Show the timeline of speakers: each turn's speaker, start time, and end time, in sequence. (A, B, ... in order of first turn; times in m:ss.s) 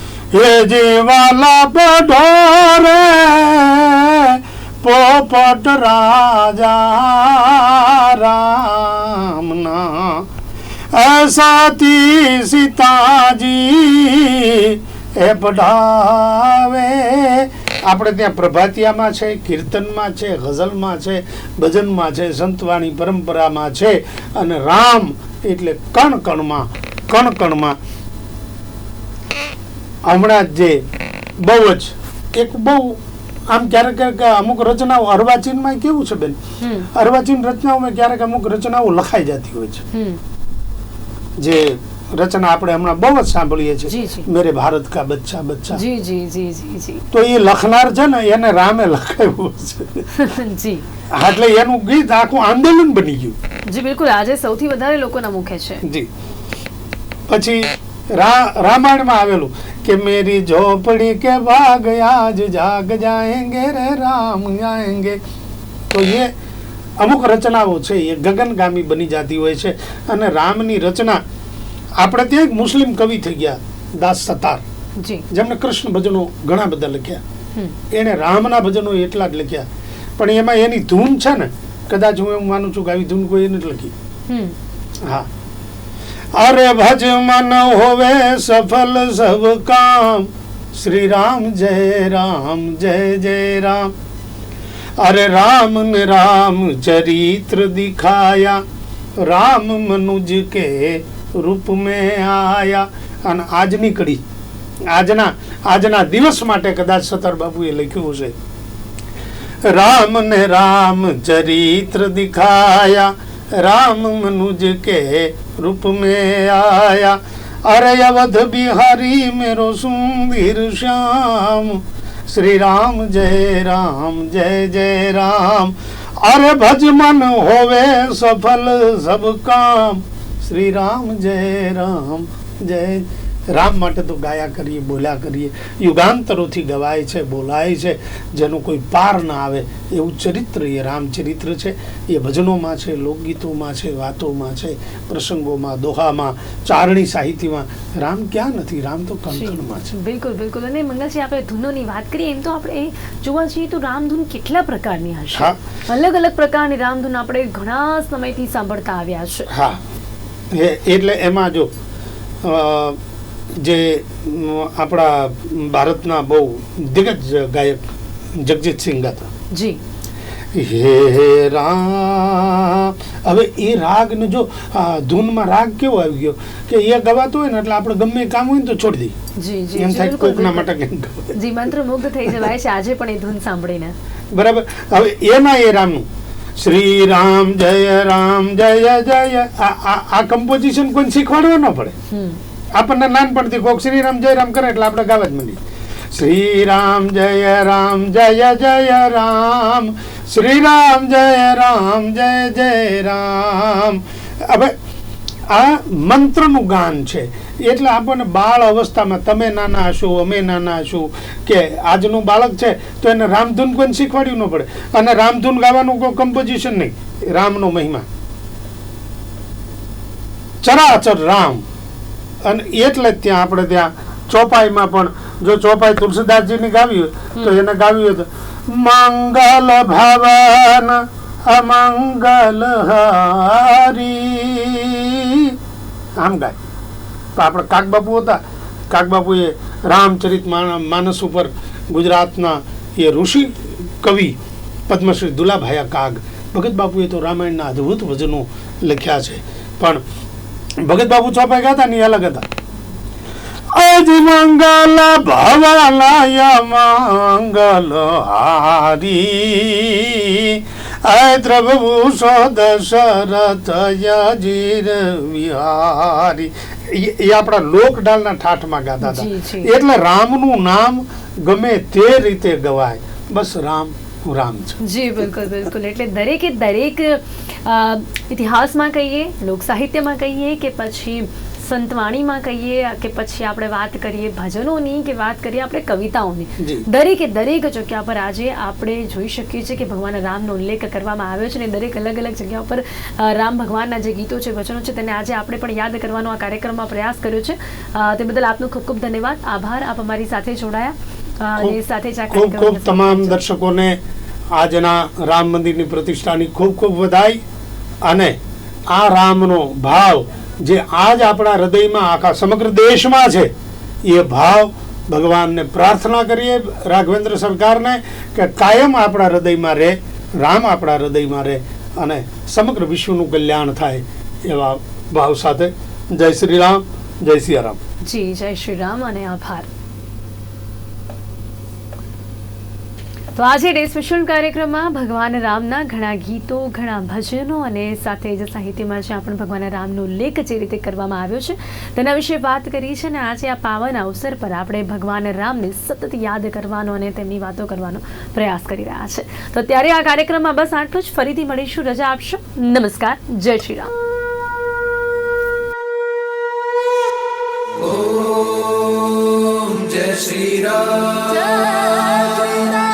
0:00.3-0:10.2 A
0:10.9-0:27.8 A
0:30.0-0:30.8 A
0:31.4-0:36.4 A
0:36.6-0:36.9 B
0:36.9-0:39.8 A
0:39.9-0:40.2 B
0:41.4-0:45.8 A
0:43.9-0:44.3 B
0:45.7-0:47.0 B
0:47.1-0:50.1 A
0:50.1-0:50.8 B
0:51.1-0:53.4 A
0:53.7-0:55.8 B
0:55.8-0:56.1 A
0:57.3-1:05.2 A
1:05.9-1:06.3 A
1:07.0-1:11.2 A
1:12.0-1:14.6 A
1:15.0-1:15.2 B
1:15.3-1:17.2 A
1:17.9-1:23.9 A
1:24.3-1:24.5 B
1:26.4-1:33.9 A
1:35.0-1:38.6 A
1:39.2-1:44.2 A
1:44.9-1:48.3 A
1:49.6-2:29.9 A
2:29.3-2:39.5 B
2:39.5-2:39.8 A
2:40.5-2:41.7 A
2:42.4-2:43.0 A
2:43.6-2:47.8 A
2:48.3-2:49.3 A
2:49.5-2:49.8 B
2:50.5-2:59.1 A
2:59.4-3:00.7 B
2:59.8-3:01.4 A
3:01.3-3:03.9 B
3:04.3-3:06.0 A
3:06.6-3:11.9 A
3:12.1-3:12.4 B
3:12.8-3:15.6 A
3:16.1-3:24.7 A
3:25.5-3:38.0 A
3:40.6-3:41.6 A
3:42.4-3:55.6 A
3:56.2-3:56.6 A
3:57.4-4:04.4 A
4:04.9-4:10.0 A
4:10.8-4:12.5 A
4:13.7-4:34.8 A
4:29.0-4:29.7 B
4:34.8-5:03.4 B
4:46.6-4:46.8 A
5:02.3-5:04.0 A
5:04.5-5:07.4 A
5:08.0-5:08.4 A
5:08.9-5:13.5 A
5:14.0-5:27.8 A
5:28.0-5:29.7 B
5:33.4-5:53.9 B
5:57.8-6:02.7 C